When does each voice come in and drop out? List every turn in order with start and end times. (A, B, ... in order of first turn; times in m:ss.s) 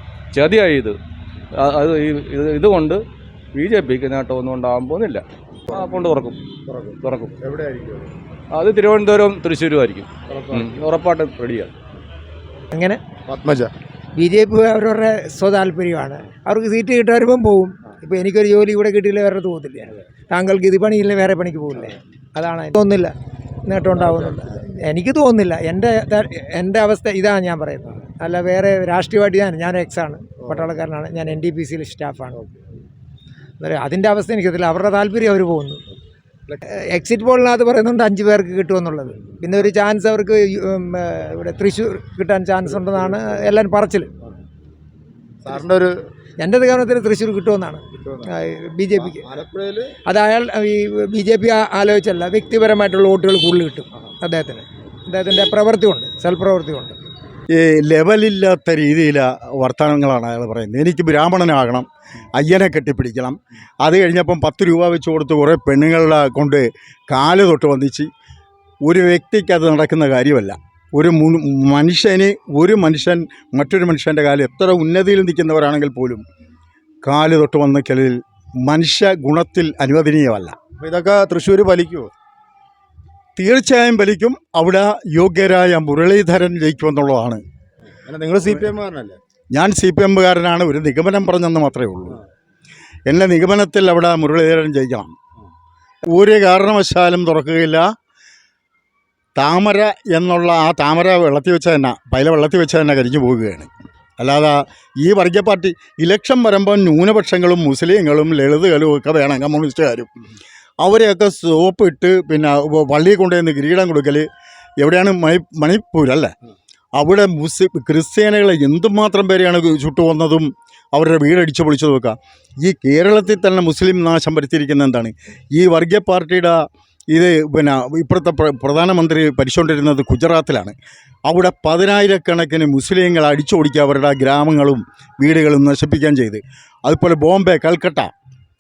0:00.3-0:01.0 A
0:01.6-0:03.0 A
0:03.6-0:06.4 A
0:06.7-0:08.1 B
0:07.0-0:07.4 A
0:08.5-0:11.7 A
0:10.3-0:10.8 B
0:12.7-0:13.0 C
0:13.3-0:13.7 B
0:14.2-0:23.1 C
0:23.7-0:32.4 C
0:24.0-0:24.6 B
0:33.6-0:35.8 C
0:36.7-0:44.1 C
0:42.7-0:43.4 B
0:45.4-0:45.9 B
0:46.4-0:49.3 C
0:48.0-0:48.2 B
0:49.0-0:50.0 B
0:50.0-0:57.0 C
0:57.5-1:08.1 D
1:08.8-1:16.2 D
1:17.0-1:20.6 D
1:20.8-1:22.1 B
1:23.4-1:27.4 D
1:28.1-1:29.2 B
1:29.5-1:32.2 D
1:33.1-1:35.1 D
1:36.1-1:37.8 D
1:39.4-1:43.7 D
1:44.2-1:50.1 D
1:50.8-1:54.2 D
1:54.8-1:56.3 D
1:57.0-2:06.6 D
2:07.1-2:10.7 D
2:11.3-2:18.1 D